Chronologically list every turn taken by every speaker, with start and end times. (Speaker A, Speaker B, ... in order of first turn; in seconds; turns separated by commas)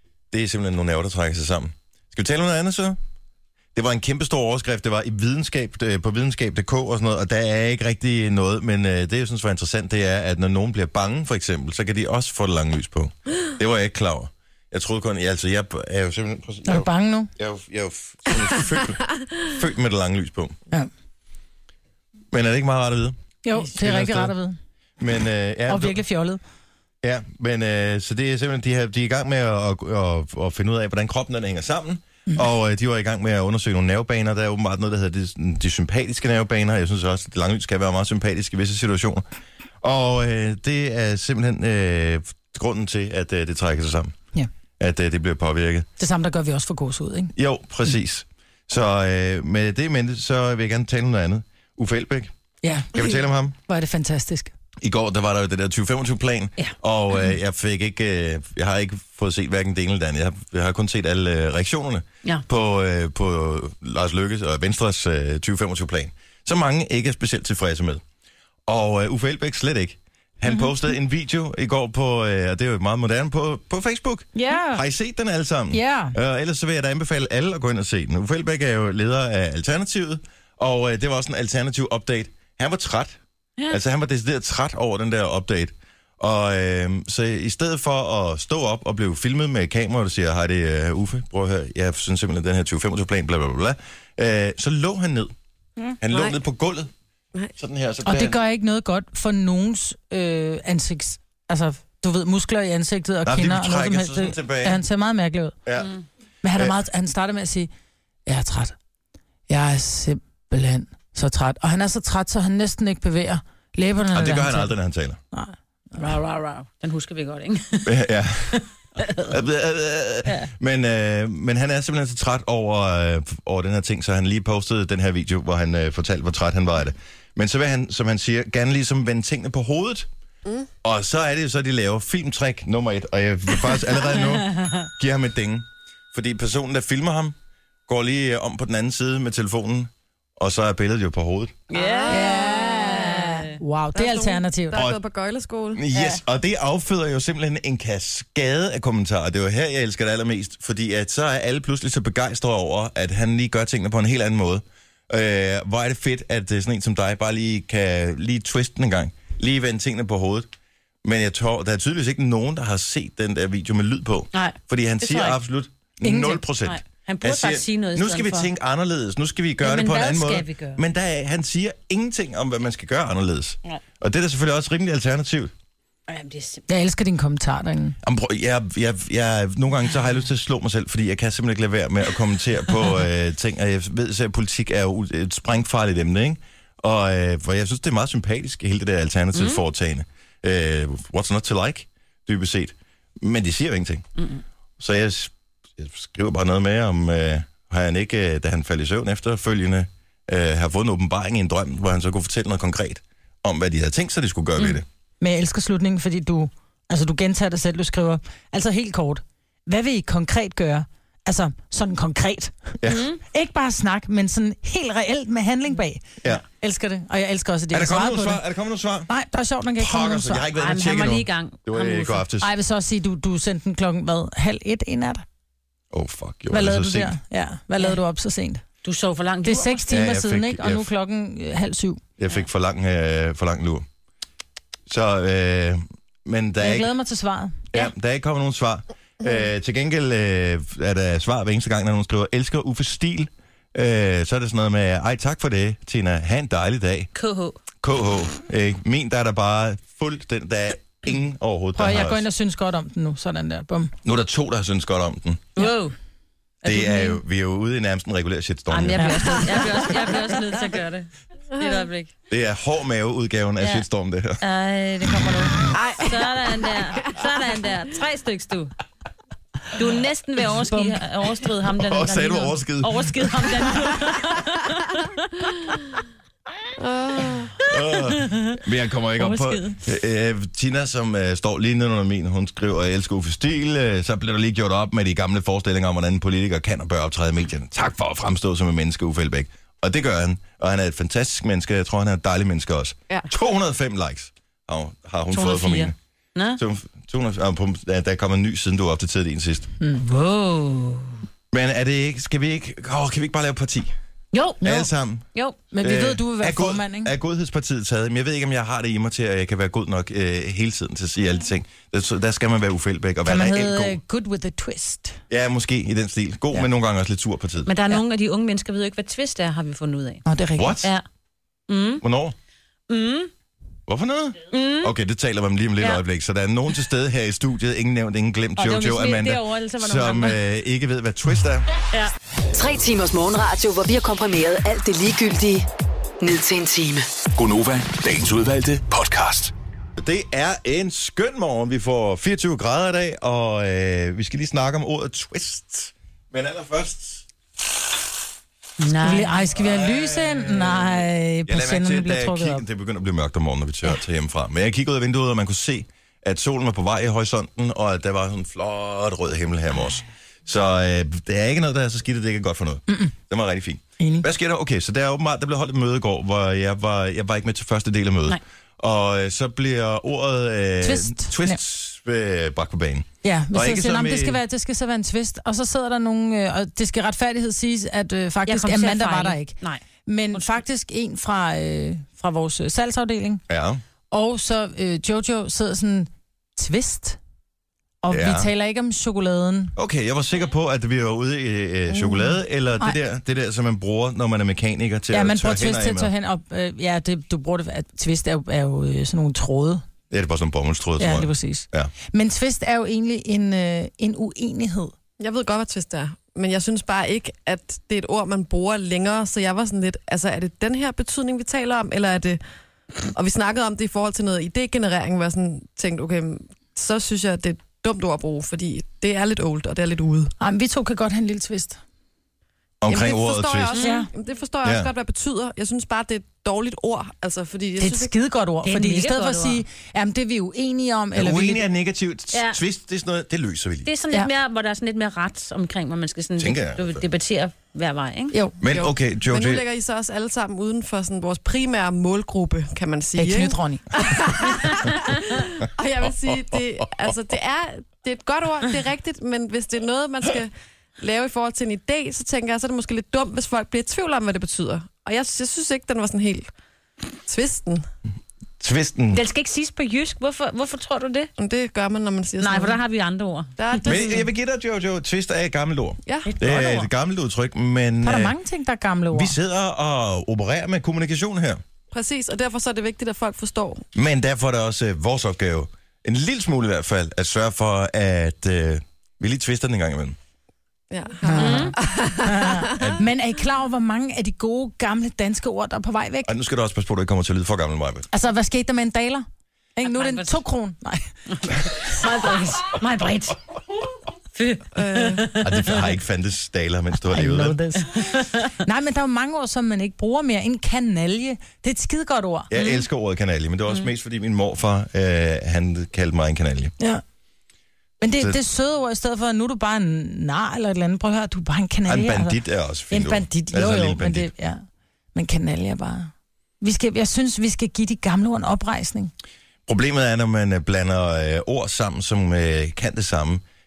Speaker A: 0.3-3.0, Speaker A: 3.8-20.6, Speaker B: 16.6-17.3, Speaker A: 22.3-24.3, Speaker B: 23.4-24.6, Speaker A: 25.0-26.0, Speaker B: 25.7-26.4, Speaker A: 27.0-39.2, Speaker A: 39.8-44.2, Speaker A: 44.8-45.9, Speaker B: 46.0-47.3, Speaker A: 47.4-52.3, Speaker B: 52.6-53.1, Speaker A: 52.9-53.5, Speaker B: 53.7-54.5, Speaker A: 54.8-68.0, Speaker A: 68.7-83.2, Speaker B: 70.5-70.7, Speaker B: 74.3-74.8, Speaker B: 75.7-76.2, Speaker A: 83.7-95.3, Speaker A: 96.0-96.9, Speaker C: 96.1-96.4, Speaker A: 97.6-98.4, Speaker B: 98.1-105.6, Speaker A: 103.2-104.8, Speaker A: 105.7-105.9, Speaker B: 106.4-107.7, Speaker B: 108.3-108.8, Speaker B: 109.5-114.7, Speaker A: 114.1-115.2, Speaker B: 115.3-116.0, Speaker D: 116.0-119.3, Speaker A: 117.8-118.6, Speaker A: 119.2-130.1, Speaker A: 130.8-137.3, Speaker A: 137.9-141.6, Speaker D: 141.7-143.6, Speaker C: 141.7-143.2, Speaker B: 142.1-144.8, Speaker C: 143.9-145.8, Speaker A: 144.7-145.0, Speaker A: 145.8-160.5, Speaker D: 145.9-146.2, Speaker A: 161.0-175.5, Speaker D: 164.3-165.4, Speaker B: 166.0-166.4, Speaker D: 166.6-168.5, Speaker D: 169.6-170.8, Speaker D: 176.1-176.7, Speaker B: 176.7-178.0, Speaker A: 178.0-194.1, Speaker D: 189.3-189.6, Speaker A: 194.8-204.8, Speaker B: 205.2-212.8, Speaker A: 212.8-213.1, Speaker D: 212.9-213.2, Speaker B: 213.3-218.4, Speaker A: 217.7-219.1, Speaker B: 219.1-220.5, Speaker A: 219.8-222.5, Speaker D: 220.6-222.2, Speaker B: 222.4-225.2, Speaker A: 225.9-227.2, Speaker B: 226.5-228.6, Speaker D: 228.8-229.8, Speaker B: 229.4-232.0, Speaker A: 229.9-230.9, Speaker A: 232.2-233.8, Speaker A: 234.9-236.9, Speaker B: 236.6-237.7, Speaker A: 237.7-247.1, Speaker D: 247.2-247.6, Speaker A: 247.8-252.3, Speaker B: 251.8-253.9, Speaker A: 254.0-255.5, Speaker D: 255.6-255.9, Speaker D: 256.6-257.2, Speaker A: 256.6-260.1, Speaker D: 258.7-262.1, Speaker B: 259.0-259.4, Speaker C: 261.6-261.9, Speaker A: 262.3-264.4, Speaker D: 263.6-263.9, Speaker D: 264.4-268.8, Speaker C: 265.7-266.2, Speaker D: 269.8-275.5, Speaker B: 270.7-271.0, Speaker A: 271.8-273.7, Speaker C: 276.8-277.6, Speaker A: 277.6-295.9, Speaker D: 277.9-278.6, Speaker D: 279.2-279.8, Speaker D: 295.3-296.6, Speaker A: 296.6-299.7, Speaker D: 300.0-301.2, Speaker A: 301.5-303.9, Speaker D: 304.3-305.6, Speaker A: 304.6-305.3, Speaker B: 305.7-307.1, Speaker A: 305.8-314.0, Speaker B: 313.2-315.2, Speaker A: 315.3-317.8, Speaker D: 317.7-320.2, Speaker B: 320.2-320.8, Speaker A: 320.6-320.9, Speaker D: 321.7-322.0, Speaker A: 322.0-322.4, Speaker D: 322.9-323.3, Speaker A: 323.9-331.7, Speaker D: 324.5-324.9, Speaker D: 328.6-330.4, Speaker E: 332.5-335.7, Speaker E: 336.2-337.1, Speaker F: 337.4-339.5, Speaker A: 340.0-347.2, Speaker D: 348.8-349.5, Speaker B: 349.0-352.6, Speaker A: 349.6-374.4, Speaker B: 362.9-363.1, Speaker B: 364.0-364.3, Speaker B: 370.8-371.6, Speaker B: 373.2-379.5, Speaker D: 378.5-379.8, Speaker B: 380.1-383.4, Speaker D: 380.3-380.6, Speaker A: 383.5-383.8, Speaker B: 384.1-387.2, Speaker B: 388.0-389.8, Speaker A: 388.1-388.5, Speaker A: 389.8-396.1, Speaker B: 395.1-399.8, Speaker A: 400.1-401.9, Speaker B: 401.0-404.9, Speaker C: 405.2-412.4, Speaker C: 413.1-420.3, Speaker B: 420.4-421.8, Speaker A: 422.8-423.8, Speaker C: 422.9-428.1, Speaker D: 423.8-424.1, Speaker B: 423.8-424.1, Speaker A: 424.6-424.9, Speaker B: 427.8-431.6, Speaker D: 428.6-429.6, Speaker A: 431.1-433.9, Speaker D: 432.3-432.6, Speaker D: 433.9-438.3, Speaker A: 436.4-437.0, Speaker A: 438.6-439.6, Speaker C: 438.7-456.5, Speaker B: 443.2-443.9, Speaker A: 446.3-446.9, Speaker C: 457.3-457.9, Speaker A: 458.6-459.2, Speaker D: 459.1-461.3, Speaker C: 461.4-462.8, Speaker D: 462.4-464.0, Speaker C: 463.6-464.2, Speaker A: 463.9-468.4, Speaker D: 466.3-466.9, Speaker B: 468.0-469.4, Speaker A: 469.1-471.6, Speaker C: 471.9-473.9, Speaker A: 473.9-480.2, Speaker C: 480.9-482.9, Speaker B: 481.2-486.3, Speaker D: 481.4-481.7, Speaker A: 486.3-488.1, Speaker B: 488.1-491.1, Speaker D: 489.9-490.4, Speaker D: 491.3-493.4, Speaker D: 494.4-495.9, Speaker C: 494.8-495.3, Speaker A: 495.4-497.6, Speaker B: 497.1-497.9, Speaker D: 497.9-498.3, Speaker B: 498.6-502.5, Speaker A: 502.5-506.7, Speaker D: 502.6-502.9, Speaker B: 508.0-512.4, Speaker A: 511.9-514.3, Speaker B: 512.9-514.6, Speaker B: 515.1-519.1, Speaker A: 519.7-523.4